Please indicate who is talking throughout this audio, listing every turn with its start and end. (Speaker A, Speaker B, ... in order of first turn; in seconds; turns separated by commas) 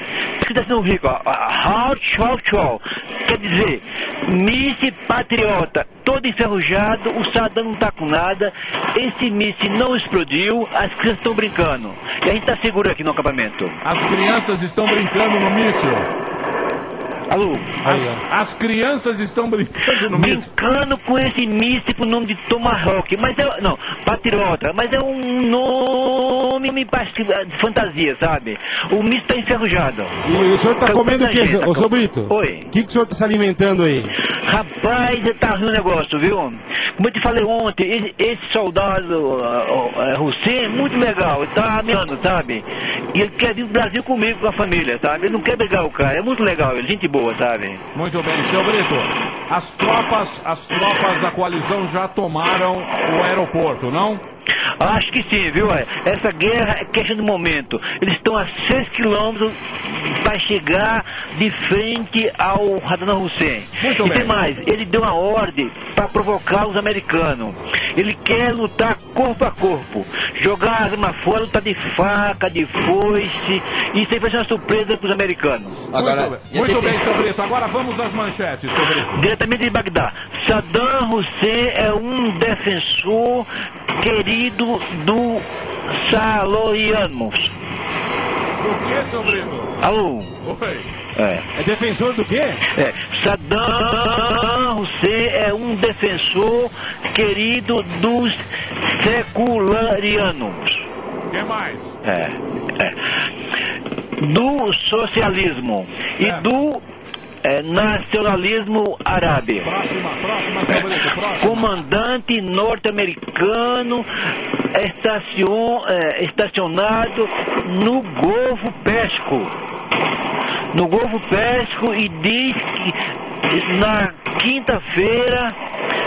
Speaker A: 0.4-13.8, Speaker B: 13.8-16.1, Speaker A: 17.3-18.1, Speaker C: 17.8-18.2, Speaker B: 17.9-20.5, Speaker A: 20.1-32.7, Speaker C: 30.2-34.1, Speaker A: 34.4-47.8, Speaker B: 47.9-54.2, Speaker A: 54.8-75.8, Speaker B: 63.8-64.3, Speaker B: 75.9-79.3, Speaker A: 79.1-87.5, Speaker B: 88.6-89.7, Speaker A: 89.8-90.3, Speaker B: 90.4-90.9, Speaker A: 91.2-91.5, Speaker C: 91.5-92.6, Speaker A: 92.7-100.8, Speaker B: 101.3-102.0, Speaker A: 102.0-103.0, Speaker A: 104.2-106.8, Speaker B: 106.2-106.5, Speaker A: 107.4-109.7, Speaker B: 109.6-111.7, Speaker A: 111.4-114.1, Speaker A: 114.7-119.5, Speaker A: 120.7-125.6